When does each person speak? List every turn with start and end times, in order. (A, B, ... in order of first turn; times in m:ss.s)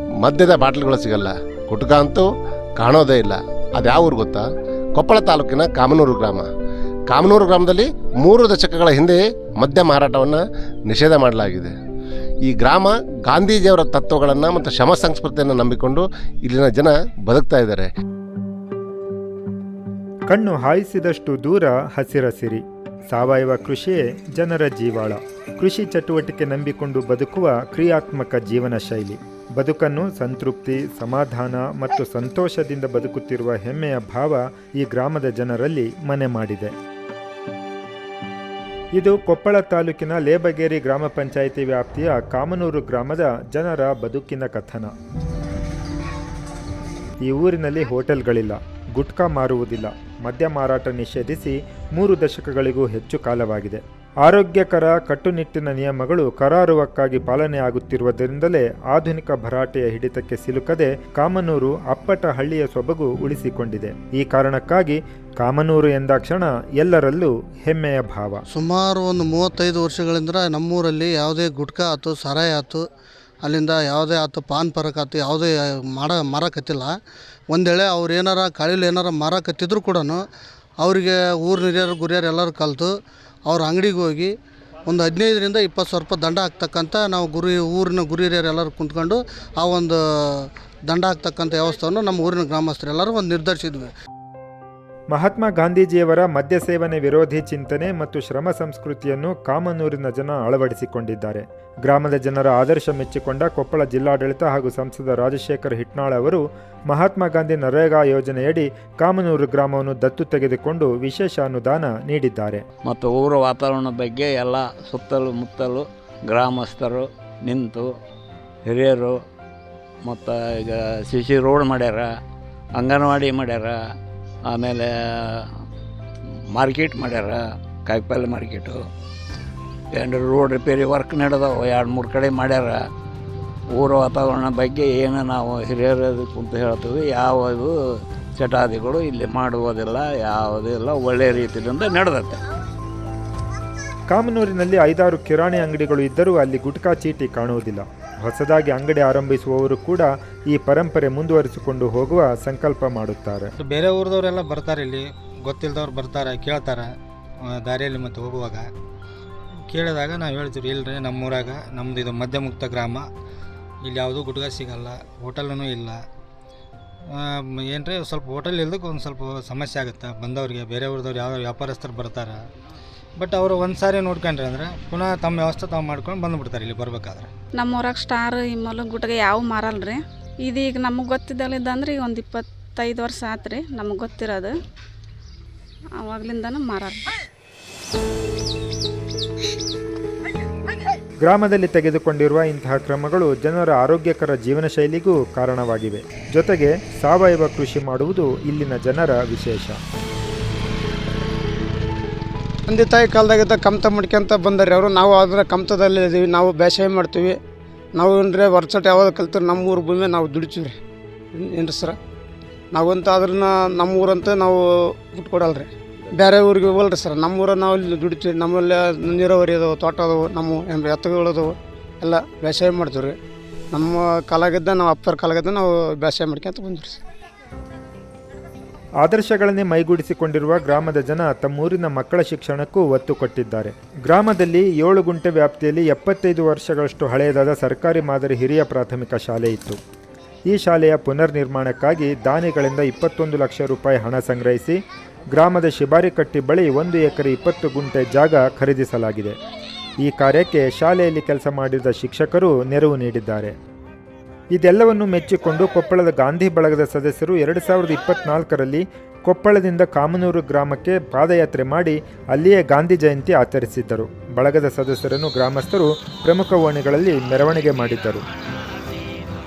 0:00.2-0:06.5 A
0:07.1-0:11.7 A
0:12.5-0:17.9 A
0:20.3-0:36.7 B
0:39.0-0:44.9 B
0:47.2-1:08.4 B
1:08.5-1:12.9 C
1:13.4-1:17.0 C
1:17.5-1:20.2 C
1:20.8-1:22.9 C
1:23.4-1:24.3 C
1:24.9-1:33.9 C
1:35.1-1:52.6 B
1:52.8-1:57.9 D
1:58.7-1:59.2 D
2:00.1-2:02.1 D
2:02.8-2:03.8 D
2:04.5-2:05.4 D
2:06.6-2:08.8 D
2:10.0-2:12.8 D
2:13.8-2:17.7 D
2:18.4-2:22.4 D
2:24.1-2:33.5 B
2:33.6-2:36.9 E
2:37.5-2:38.7 E
2:39.7-2:43.1 E
2:43.8-2:46.0 E
2:47.1-2:52.4 E
2:53.2-2:57.3 E
2:57.6-3:04.5 F
3:06.0-3:07.0 F
3:11.2-3:19.8 B
3:22.7-3:27.4 G
3:28.0-3:30.8 G
3:31.3-3:32.0 G
3:32.7-3:43.2 G
3:43.7-3:47.0 G
3:49.0-3:59.8 B
4:00.5-4:04.8 B
4:05.3-4:09.4 B
4:10.0-4:13.6 B
4:14.5-4:28.2 B